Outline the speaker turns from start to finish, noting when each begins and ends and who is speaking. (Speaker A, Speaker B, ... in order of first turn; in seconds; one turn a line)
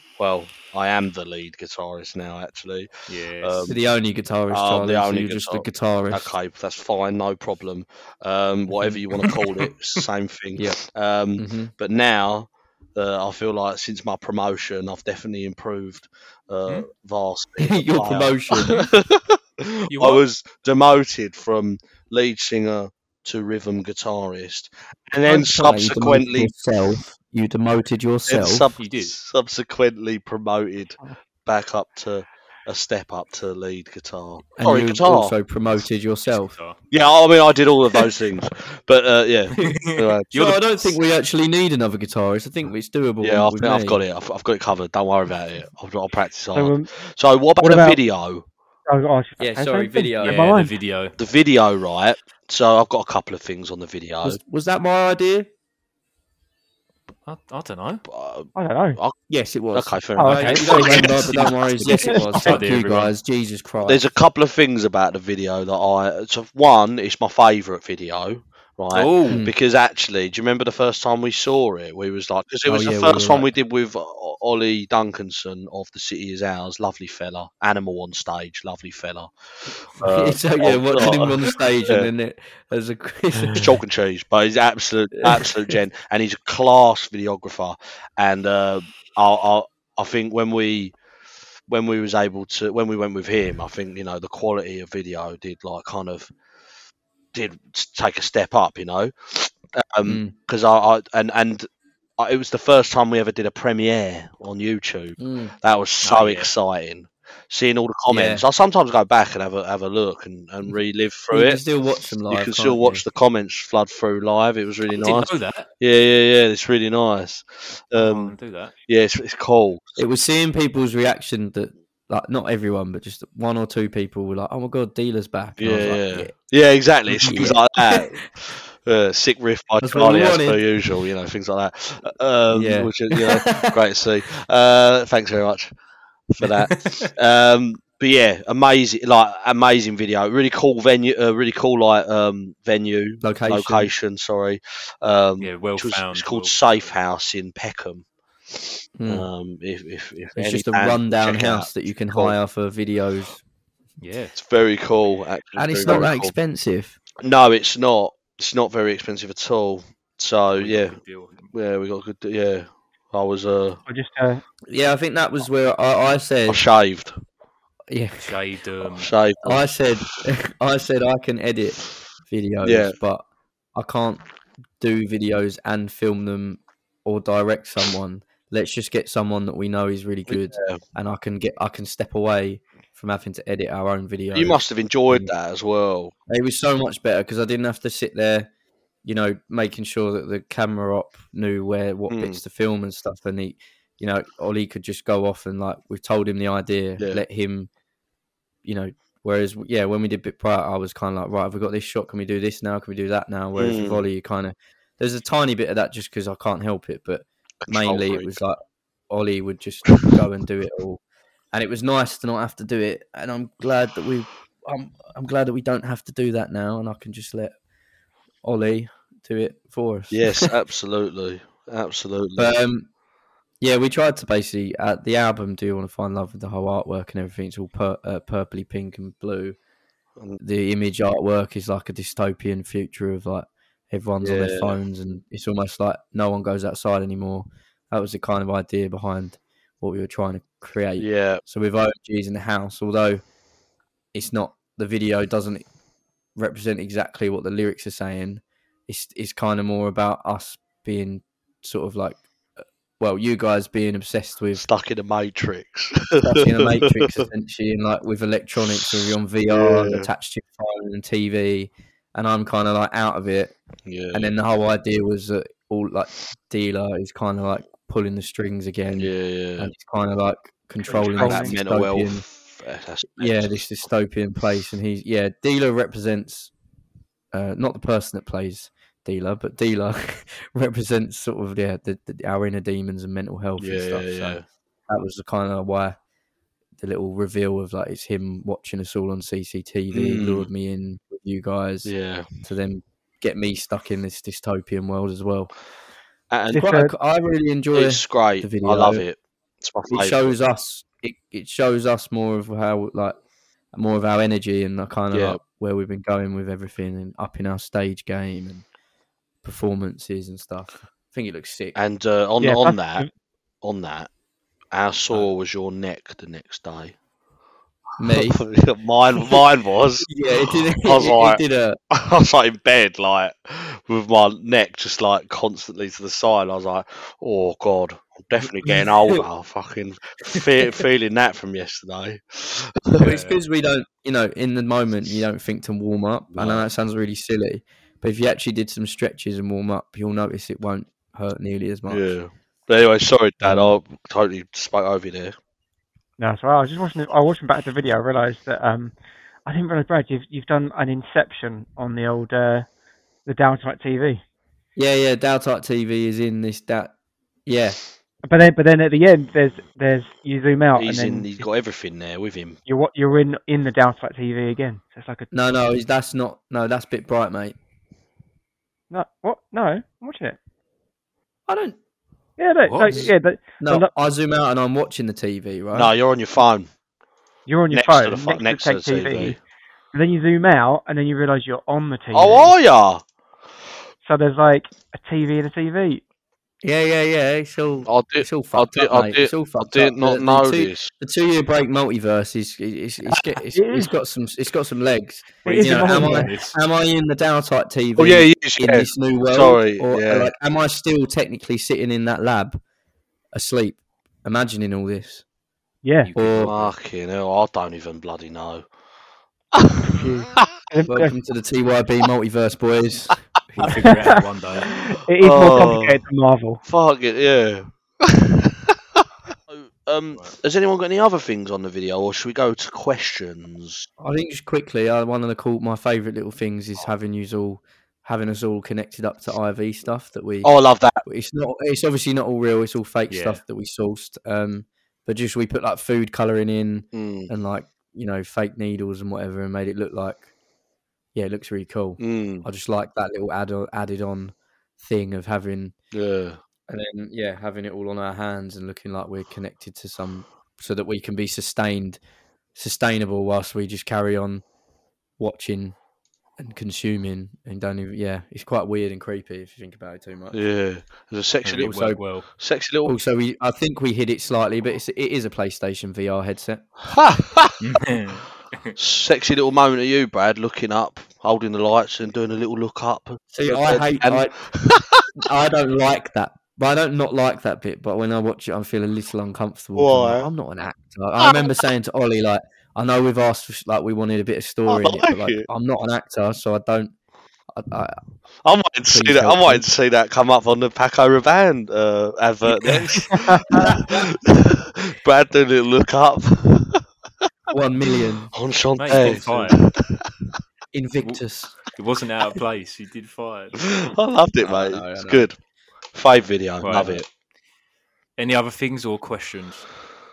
Speaker A: 0.2-3.8
Speaker B: 3.1-3.7
Speaker C: 3.6-6.3
Speaker A: 4.5-26.5
Speaker B: 9.2-9.6
Speaker C: 11.4-11.7
Speaker C: 17.6-18.8
Speaker B: 19.9-20.2
Speaker C: 25.2-28.6
Speaker A: 28.3-35.3
Speaker B: 28.8-29.1
Speaker C: 34.6-36.5
Speaker B: 36.3-36.8
Speaker A: 36.9-40.2
Speaker B: 39.6-40.6
Speaker C: 40.3-44.0
Speaker A: 43.2-48.4
Speaker D: 46.5-46.9
Speaker D: 47.6-48.0
Speaker D: 48.9-50.7
Speaker C: 49.4-50.4
Speaker B: 50.2-51.1
Speaker A: 51.2-54.4
Speaker C: 54.2-55.5
Speaker B: 57.2-58.0
Speaker A: 58.0-59.2
Speaker D: 58.5-59.0
Speaker C: 59.3-64.0
Speaker A: 59.7-61.3
Speaker D: 60.2-60.7
Speaker B: 60.3-63.1
Speaker D: 62.0-62.6
Speaker A: 63.8-82.1
Speaker B: 68.9-69.4
Speaker C: 72.7-73.5
Speaker C: 80.0-83.8
Speaker A: 83.5-91.0
Speaker C: 85.2-85.5
Speaker A: 91.7-96.3
Speaker A: 97.3-101.7
Speaker C: 100.0-100.3
Speaker A: 102.2-111.6
Speaker C: 105.2-105.5
Speaker B: 106.0-106.5
Speaker C: 108.1-108.4
Speaker C: 111.3-113.0
Speaker A: 112.3-118.3
Speaker B: 115.0-115.7
Speaker B: 118.0-118.7
Speaker A: 118.9-120.0
Speaker C: 120.0-126.3
Speaker A: 125.6-135.7
Speaker C: 127.2-128.2
Speaker C: 129.8-130.6
Speaker C: 132.5-133.7
Speaker A: 136.3-152.3
Speaker B: 136.4-137.1
Speaker C: 143.2-143.9
Speaker B: 145.4-146.6
Speaker C: 149.0-149.3
Speaker C: 150.4-153.4
Speaker B: 154.0-154.3
Speaker A: 154.3-156.3
Speaker C: 155.6-156.9
Speaker A: 157.2-161.0
Speaker B: 160.6-161.5
Speaker A: 161.5-163.8
Speaker D: 163.9-164.4
Speaker C: 164.7-166.6
Speaker A: 166.5-167.1
Speaker C: 167.9-168.3
Speaker B: 168.2-169.1
Speaker A: 168.9-169.7
Speaker C: 169.4-174.2
Speaker A: 172.6-172.9
Speaker C: 174.8-185.3
Speaker A: 180.3-180.8
Speaker A: 184.3-186.1
Speaker C: 186.3-188.5
Speaker C: 189.0-197.7
Speaker A: 192.1-192.4
Speaker C: 198.6-208.6
Speaker A: 203.5-204.0
Speaker A: 207.6-208.3
Speaker C: 209.1-211.0
Speaker C: 211.5-217.6
Speaker C: 218.4-220.5
Speaker A: 220.1-222.5
Speaker C: 222.4-222.9
Speaker C: 223.6-229.6
Speaker C: 230.4-243.2
Speaker A: 234.2-234.8
Speaker A: 241.0-241.4
Speaker C: 244.1-245.7
Speaker C: 246.3-252.2
Speaker C: 253.0-254.6
Speaker A: 254.6-257.2
Speaker C: 256.2-263.5
Speaker A: 259.5-260.1
Speaker A: 263.9-264.3
Speaker C: 264.1-272.2
Speaker A: 268.9-269.7
Speaker A: 270.9-273.6
Speaker D: 270.9-271.6
Speaker C: 273.1-276.5
Speaker C: 277.3-286.0
Speaker A: 283.6-284.4
Speaker C: 286.8-291.9
Speaker A: 289.9-290.5
Speaker A: 291.9-292.2
Speaker C: 292.4-295.5
Speaker A: 296.3-296.6
Speaker D: 296.5-296.9
Speaker C: 296.5-299.0
Speaker A: 297.7-300.3
Speaker C: 299.9-303.2
Speaker C: 303.7-308.6
Speaker A: 305.1-305.4
Speaker C: 309.4-311.8
Speaker A: 311.7-313.1
Speaker D: 312.4-313.1
Speaker A: 313.6-314.1
Speaker A: 314.7-316.9
Speaker C: 318.0-318.4
Speaker A: 318.0-320.1
Speaker C: 320.0-321.8
Speaker A: 320.8-333.1
Speaker C: 328.6-329.2
Speaker C: 330.3-330.8
Speaker B: 333.0-333.4
Speaker C: 333.0-342.1
Speaker A: 336.3-336.6
Speaker A: 341.9-345.3
Speaker C: 343.4-343.7
Speaker D: 346.2-352.7
Speaker D: 353.2-354.2
Speaker C: 354.8-356.9
Speaker C: 357.4-357.8
Speaker D: 358.2-361.5
Speaker A: 360.7-362.6
Speaker D: 362.6-365.3
Speaker C: 365.3-367.5
Speaker D: 368.9-370.4
Speaker C: 371.5-371.8
Speaker D: 372.4-373.9
Speaker B: 372.6-373.1
Speaker C: 372.9-375.9
Speaker A: 375.7-376.7
Speaker D: 377.5-379.4
Speaker A: 377.7-379.4
Speaker D: 379.9-382.5
Speaker A: 382.1-383.0
Speaker D: 384.0-386.0
Speaker C: 386.6-402.6
Speaker A: 387.9-390.9
Speaker D: 393.5-393.9
Speaker B: 395.4-396.5
Speaker D: 395.4-396.3
Speaker A: 398.0-400.3
Speaker C: 403.3-405.2
Speaker D: 405.8-406.1
Speaker B: 406.0-406.7
Speaker C: 406.1-406.5
Speaker A: 406.4-408.7
Speaker A: 409.6-410.0
Speaker D: 409.9-411.1
Speaker C: 410.9-413.9
Speaker B: 413.6-414.8
Speaker D: 413.6-416.6
Speaker A: 415.2-416.0
Speaker A: 416.6-418.7
Speaker A: 419.5-423.9
Speaker C: 424.0-430.5
Speaker A: 430.4-431.0
Speaker C: 431.0-440.3
Speaker B: 433.1-433.4
Speaker A: 436.9-437.3
Speaker C: 441.1-445.7
Speaker A: 442.0-442.4
Speaker A: 445.9-446.4
Speaker C: 446.7-452.0
Speaker C: 452.6-454.4
Speaker C: 455.2-455.8
Speaker C: 456.4-460.4
Speaker A: 460.3-462.9
Speaker B: 461.4-462.3
Speaker C: 461.7-462.0
Speaker C: 462.8-466.6
Speaker A: 466.9-467.5
Speaker B: 467.6-468.7
Speaker A: 468.8-475.1
Speaker C: 473.3-474.4
Speaker C: 475.2-486.9
Speaker A: 479.8-480.3
Speaker A: 481.2-481.5
Speaker A: 484.7-485.4
Speaker C: 487.5-488.0
Speaker A: 488.4-496.8
Speaker C: 488.9-489.6
Speaker D: 493.1-493.6
Speaker C: 493.5-494.1
Speaker C: 497.5-498.3
Speaker A: 498.3-500.1
Speaker B: 498.8-499.6
Speaker C: 500.7-501.6
Speaker B: 501.7-503.6
Speaker A: 503.6-505.4
Speaker C: 504.4-505.3
Speaker A: 505.9-507.1
Speaker B: 506.6-507.0
Speaker B: 508.2-509.7